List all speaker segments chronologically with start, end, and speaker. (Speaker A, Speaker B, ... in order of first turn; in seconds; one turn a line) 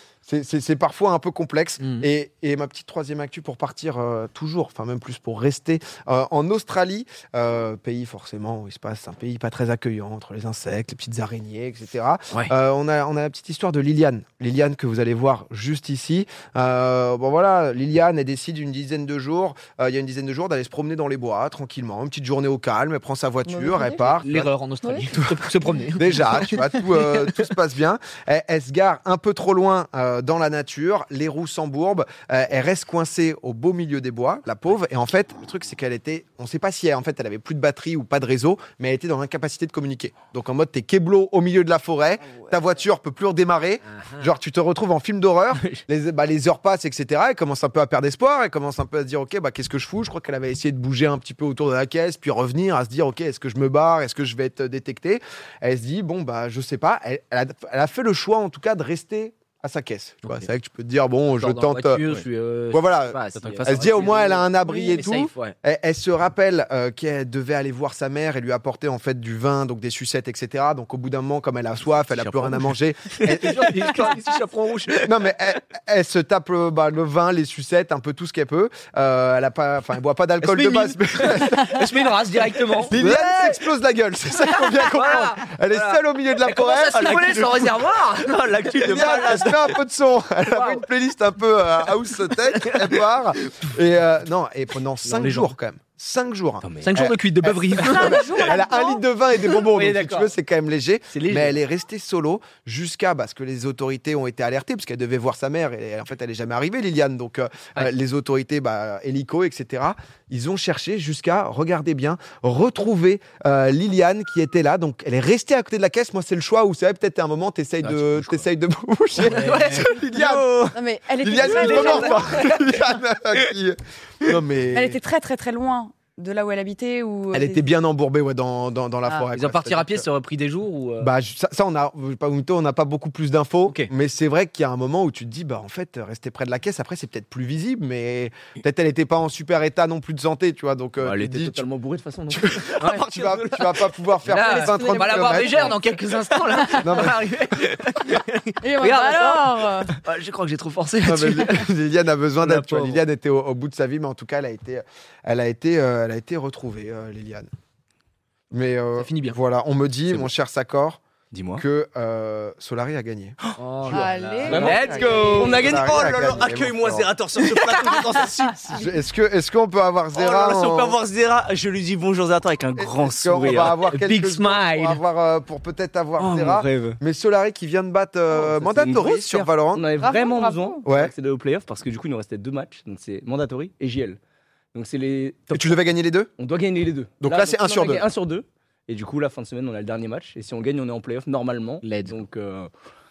Speaker A: 0.2-24.5
Speaker B: 1.8-2.1
Speaker C: 23.4-24.2
Speaker B: 24.2-27.2
Speaker A: 25.9-62.0
Speaker B: 43.9-44.3
Speaker D: 45.5-45.8
Speaker B: 61.4-65.5
Speaker A: 62.7-74.2
Speaker D: 63.4-64.4
Speaker D: 72.1-75.3
Speaker A: 75.0-81.9
Speaker B: 80.4-83.0
Speaker D: 80.5-81.5
Speaker D: 82.8-83.7
Speaker A: 82.9-87.2
Speaker B: 84.4-89.5
Speaker D: 86.9-89.7
Speaker A: 88.8-120.6
Speaker B: 90.5-90.8
Speaker D: 95.1-95.5
Speaker B: 95.2-95.5
Speaker D: 96.6-96.9
Speaker B: 96.8-98.6
Speaker C: 97.8-99.0
Speaker B: 99.7-100.3
Speaker B: 101.1-101.5
Speaker D: 117.8-118.5
Speaker D: 119.2-120.8
Speaker B: 119.3-119.9
Speaker C: 120.7-122.3
Speaker A: 121.2-125.0
Speaker D: 121.4-122.8
Speaker B: 121.9-122.2
Speaker C: 124.7-127.6
Speaker A: 127.3-130.1
Speaker B: 129.3-131.1
Speaker A: 131.0-141.7
Speaker B: 133.7-133.9
Speaker D: 141.0-143.9
Speaker A: 142.3-145.7
Speaker B: 144.2-151.7
Speaker C: 144.4-145.7
Speaker C: 146.5-147.0
Speaker A: 146.8-147.2
Speaker C: 148.6-149.9
Speaker A: 151.0-157.5
Speaker D: 152.4-153.0
Speaker A: 158.5-161.0
Speaker B: 159.0-159.4
Speaker D: 161.3-161.6
Speaker A: 161.5-163.4
Speaker B: 163.6-165.7
Speaker A: 163.9-167.1
Speaker C: 163.9-165.8
Speaker D: 164.4-168.8
Speaker C: 167.6-168.8
Speaker A: 168.7-171.0
Speaker D: 170.1-173.8
Speaker A: 172.8-179.9
Speaker B: 173.8-175.0
Speaker D: 176.2-177.0
Speaker D: 178.3-184.2
Speaker C: 180.0-180.8
Speaker A: 180.8-181.1
Speaker D: 184.7-185.8
Speaker A: 185.5-186.3
Speaker D: 186.4-192.7
Speaker A: 187.2-188.1
Speaker B: 191.8-192.2